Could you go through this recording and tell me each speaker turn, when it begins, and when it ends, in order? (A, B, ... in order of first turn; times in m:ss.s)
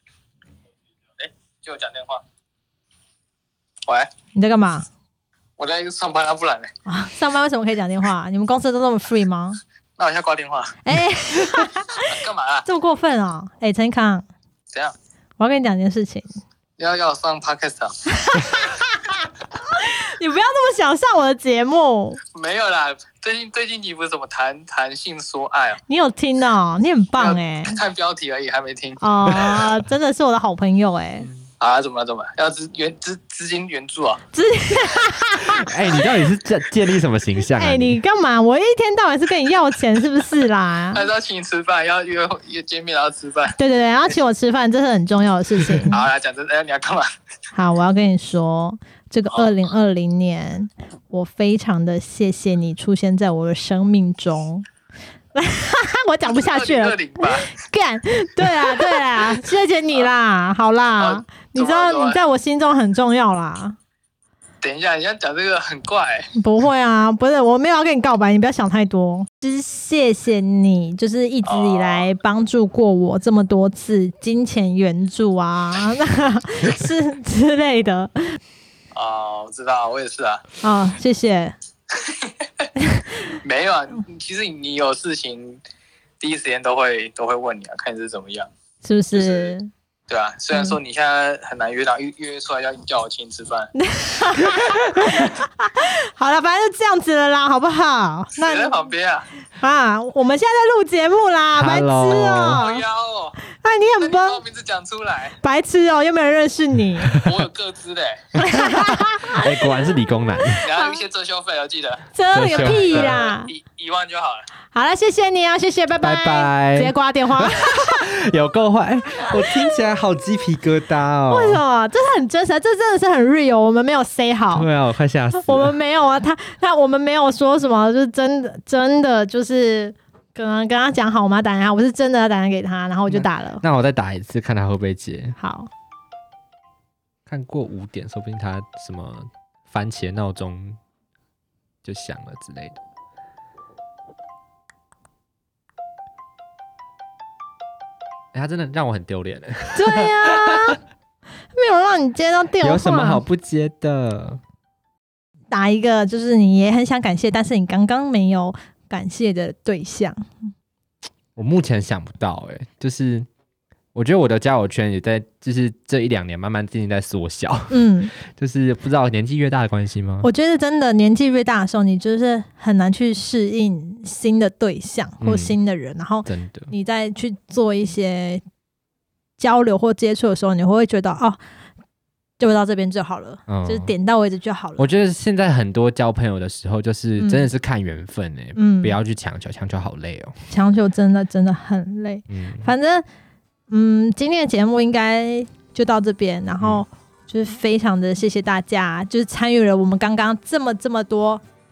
0:01.2-0:02.2 A
0:04.3-0:04.9 B
0:05.6-0:06.7 A
0:06.8-0:09.6 B
0:10.0-0:10.8 A
0:10.8-0:14.2 B
0:11.5-0:12.6 A
0:15.4-0:16.4 B
0:16.8-0:18.0 A
0:18.1-0:22.2 B
0:22.3-0:25.8 A
0:25.9-0:27.8 B
0:27.2-0:29.0 A
0:29.0-0:31.3 B
0:29.3-0:29.7 C
0:31.6-0:34.2 A
0:34.3-0:36.2 B
0:35.4-0:38.0 C
0:37.5-0:41.1 B
0:40.9-0:43.6 A
0:43.6-0:46.0 B
0:45.8-0:47.1 A
0:47.5-0:54.6 B
0:55.3-1:03.8 B
0:56.3-0:57.6 A
1:01.0-1:02.2 A
1:04.6-1:06.3 A
1:06.3-1:18.4 B
1:11.4-1:12.1 A
1:18.9-1:20.5 A
1:20.6-1:21.5 B
1:21.9-1:22.7 A
1:22.8-1:23.3 B
1:23.3-1:25.6 A
1:26.2-1:28.5 A
1:28.8-1:29.7 B
1:29.1-1:29.5 A
1:30.1-1:33.7 A
1:33.7-1:38.9 B
1:34.4-1:35.4 C
1:38.4-1:39.3 A
1:39.6-1:42.8 B
1:41.6-1:42.6 C
1:42.6-1:43.4 A
1:43.5-1:44.4 B
1:44.0-1:45.4 A
1:45.4-1:47.1 B
1:47.0-1:47.4 C
1:47.2-1:48.2 A
1:48.4-1:49.9 B
1:48.4-1:50.6 C
1:50.6-1:54.4 A
1:50.6-1:51.0 B
1:52.1-1:53.5 B
1:52.3-1:53.2 C
1:54.7-1:58.1 B
1:56.0-2:01.6 C
1:59.3-1:59.8 B
2:01.3-2:04.7 B
2:04.5-2:05.8 C
2:05.3-2:13.6 B
2:13.1-2:15.4 C
2:15.4-2:15.7 B
2:17.3-2:20.8 C
2:21.8-2:22.8 C
2:28.3-2:30.8 C
2:29.7-2:30.8 B
2:31.5-2:33.2 B
2:32.6-2:34.4 C
2:35.5-2:40.3 B
2:41.4-2:43.3 C
2:43.9-2:50.3 C
2:47.7-2:48.1 B
2:50.2-2:58.4 B
2:55.2-2:55.5 C
2:56.2-2:56.7 C
2:59.4-3:01.4 B
3:02.4-3:04.9 B
3:03.5-3:03.9 C
3:04.8-3:10.4 C
3:07.2-3:07.5 B
3:08.6-3:09.0 B
3:10.5-3:13.0 B
3:12.3-3:12.7 C
3:13.7-3:21.4 B